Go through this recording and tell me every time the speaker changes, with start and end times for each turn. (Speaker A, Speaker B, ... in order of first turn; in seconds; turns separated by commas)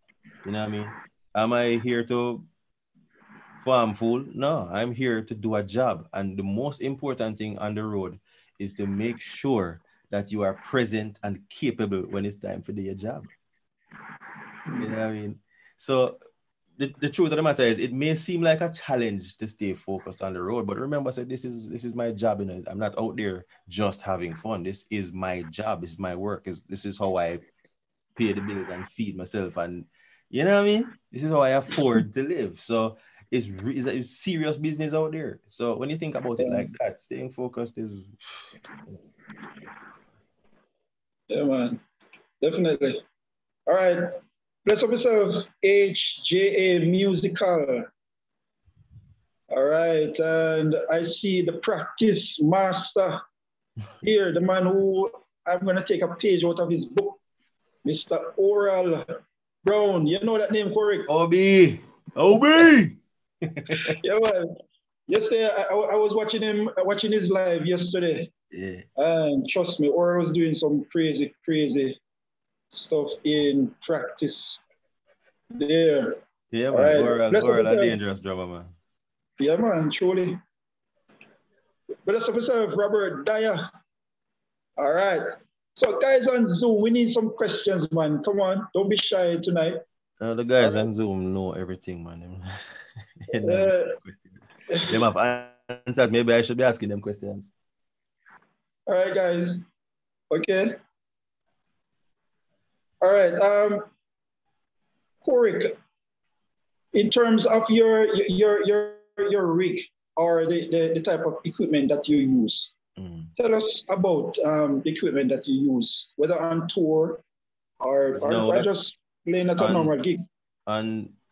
Speaker A: 0.4-2.5, Speaker A: 3.6-13.3, Speaker B: 14.7-14.9, Speaker A: 14.8-16.2, Speaker A: 16.8-27.4, Speaker A: 28.1-39.0, Speaker B: 36.4-36.7, Speaker B: 41.3-41.8, Speaker B: 42.4-43.0, Speaker B: 43.7-47.9, Speaker B: 49.5-53.2, Speaker B: 54.0-57.2, Speaker B: 57.8-59.1, Speaker B: 59.6-61.1, Speaker A: 61.1-64.0, Speaker B: 63.7-64.5, Speaker B: 65.1-68.3, Speaker A: 68.5-68.8, Speaker B: 69.0-72.0, Speaker B: 72.7-74.6, Speaker B: 75.5-76.2, Speaker A: 76.5-78.7, Speaker B: 76.7-78.0, Speaker B: 79.4-80.4, Speaker B: 82.0-83.7, Speaker B: 84.8-89.8, Speaker A: 90.2-92.4, Speaker B: 90.6-90.9, Speaker A: 93.3-97.5, Speaker B: 93.4-94.0, Speaker B: 98.9-99.6, Speaker B: 100.3-100.8, Speaker B: 103.0-103.8, Speaker B: 105.2-105.7, Speaker B: 106.9-112.7, Speaker A: 113.0-113.3, Speaker B: 113.4-117.2, Speaker B: 117.8-120.2, Speaker A: 118.2-118.7, Speaker A: 119.6-119.9, Speaker A: 120.7-121.1